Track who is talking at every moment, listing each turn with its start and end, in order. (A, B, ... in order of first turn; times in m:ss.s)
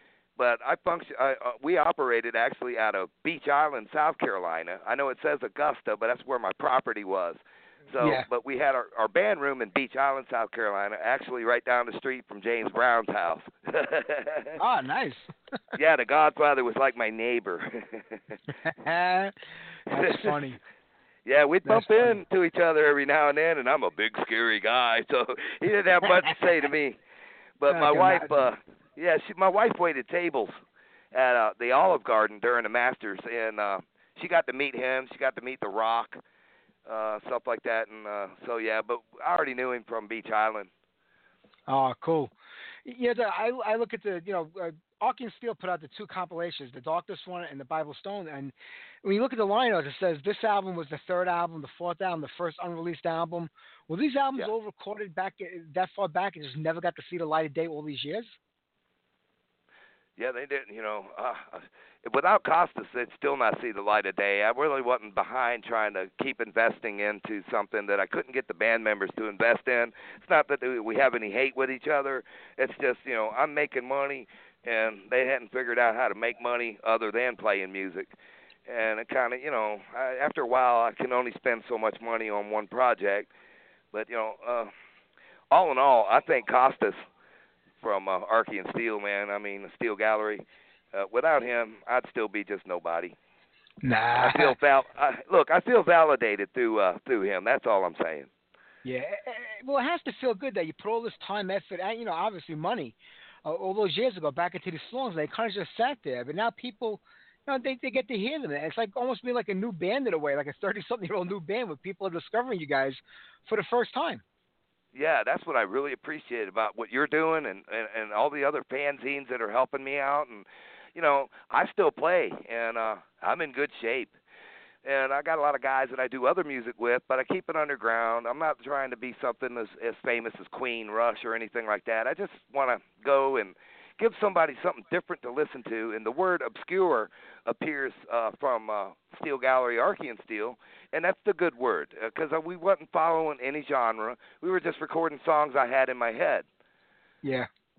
0:00.4-0:14.6 A
0:08.0-0:08.3 B
0:14.6-0:15.3 B
0:15.8-0:18.2 A
0:18.6-0:19.3 B
0:19.9-0:20.6 B
0:19.9-0:20.4 A
0:21.3-0:27.0 A
0:21.7-0:22.2 B
0:27.6-0:30.6 A
0:27.7-0:28.4 B
0:31.1-0:36.2 A
0:36.9-0:40.7 A
0:41.7-0:42.3 B
0:42.9-0:58.4 B
1:00.2-1:18.1 A
1:18.7-1:23.3 A
1:23.9-1:24.7 A
1:25.5-1:27.0 A
1:27.8-1:33.2 A
1:33.8-1:34.5 B
1:34.2-1:38.3 A
1:38.8-1:54.2 B
1:54.9-2:04.1 A
2:04.8-2:26.5 A
2:27.2-2:27.5 B